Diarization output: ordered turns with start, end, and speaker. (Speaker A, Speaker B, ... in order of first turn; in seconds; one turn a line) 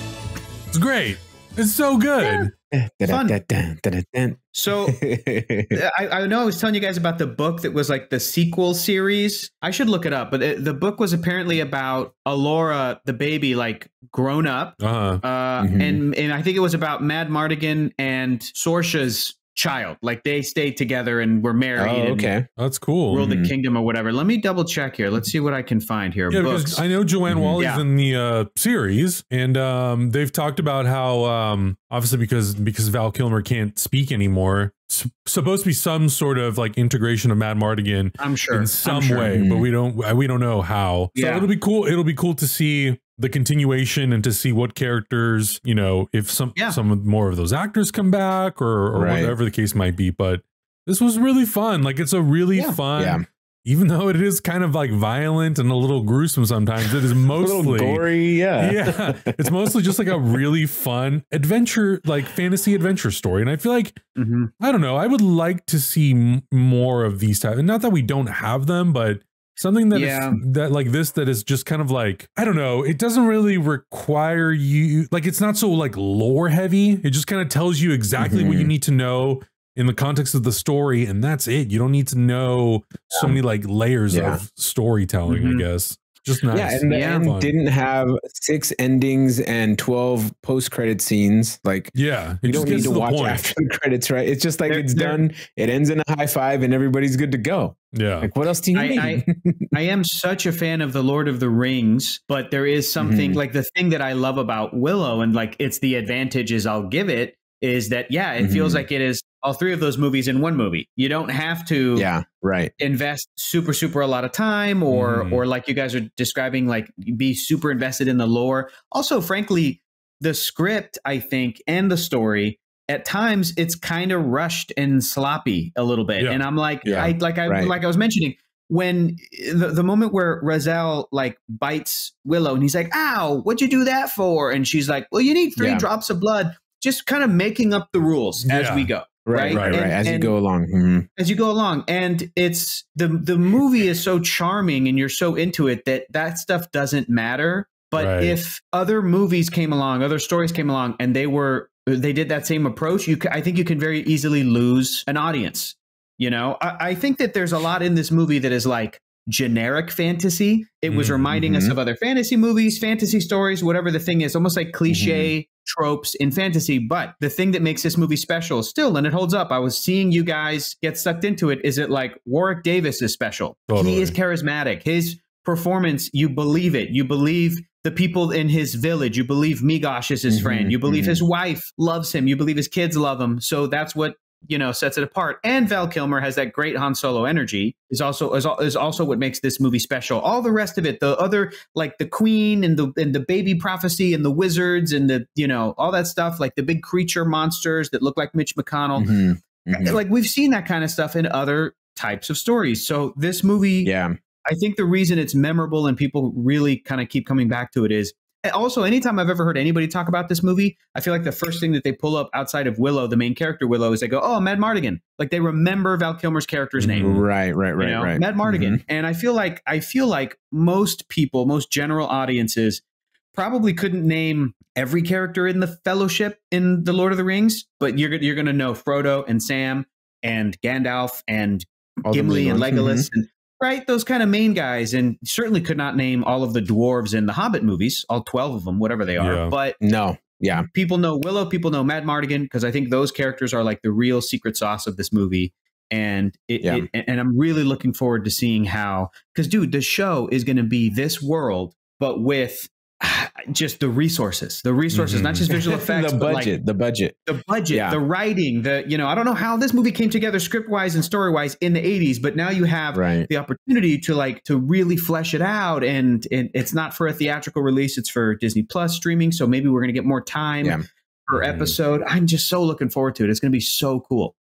Speaker A: 0.7-2.5
Speaker B: 2.7-5.8
Speaker C: 3.1-3.4
Speaker C: 4.5-5.0
Speaker C: 5.7-22.3
Speaker A: 14.8-15.2
Speaker B: 15.6-16.0
Speaker B: 21.8-22.5
Speaker A: 22.6-23.2
Speaker B: 23.1-23.5
Speaker C: 23.1-26.8
Speaker A: 26.3-58.1
Speaker B: 27.3-27.6
Speaker C: 27.6-27.8
Speaker C: 38.2-39.4
Speaker B: 39.3-39.7
Speaker C: 41.1-41.5
Speaker B: 49.0-49.4
Speaker B: 53.0-53.2
Speaker B: 57.1-59.9
Speaker A: 58.6-64.0
Speaker C: 64.2-64.5
Speaker A: 64.6-87.5
Speaker C: 69.9-70.4
Speaker B: 78.2-78.7
Speaker B: 83.1-83.4
Speaker B: 84.1-84.4
Speaker C: 85.3-85.7
Speaker B: 86.5-99.7
Speaker C: 86.9-87.3
Speaker A: 92.0-93.5
Speaker C: 94.7-95.2
Speaker A: 97.9-98.3
Speaker C: 98.7-112.1
Speaker B: 103.0-103.4
Speaker B: 108.4-108.8
Speaker B: 111.9-112.7
Speaker C: 112.8-140.3
Speaker A: 114.9-115.4
Speaker B: 126.8-127.7
Speaker B: 135.6-135.9
Speaker A: 138.5-138.9
Speaker B: 139.2-141.1
Speaker A: 139.5-139.8
Speaker C: 141.2-199.1
Speaker A: 148.0-148.4
Speaker A: 160.9-161.3
Speaker B: 161.3-161.8
Speaker B: 164.9-165.3
Speaker A: 173.7-174.2
Speaker B: 180.3-181.2
Speaker B: 199.0-200.0
Speaker C: 199.7-203.9
Speaker B: 203.8-204.2
Speaker C: 204.5-217.3
Speaker A: 216.8-217.1
Speaker B: 216.9-218.8
Speaker C: 217.8-222.8
Speaker C: 223.3-239.8
Speaker B: 232.1-233.1
Speaker A: 239.2-239.6
Speaker B: 239.8-240.7
Speaker C: 240.7-256.5
Speaker B: 246.6-246.9
Speaker A: 254.9-255.5
Speaker B: 255.5-257.2
Speaker C: 257.3-274.4
Speaker B: 257.7-258.0
Speaker B: 262.9-263.3
Speaker A: 271.4-271.7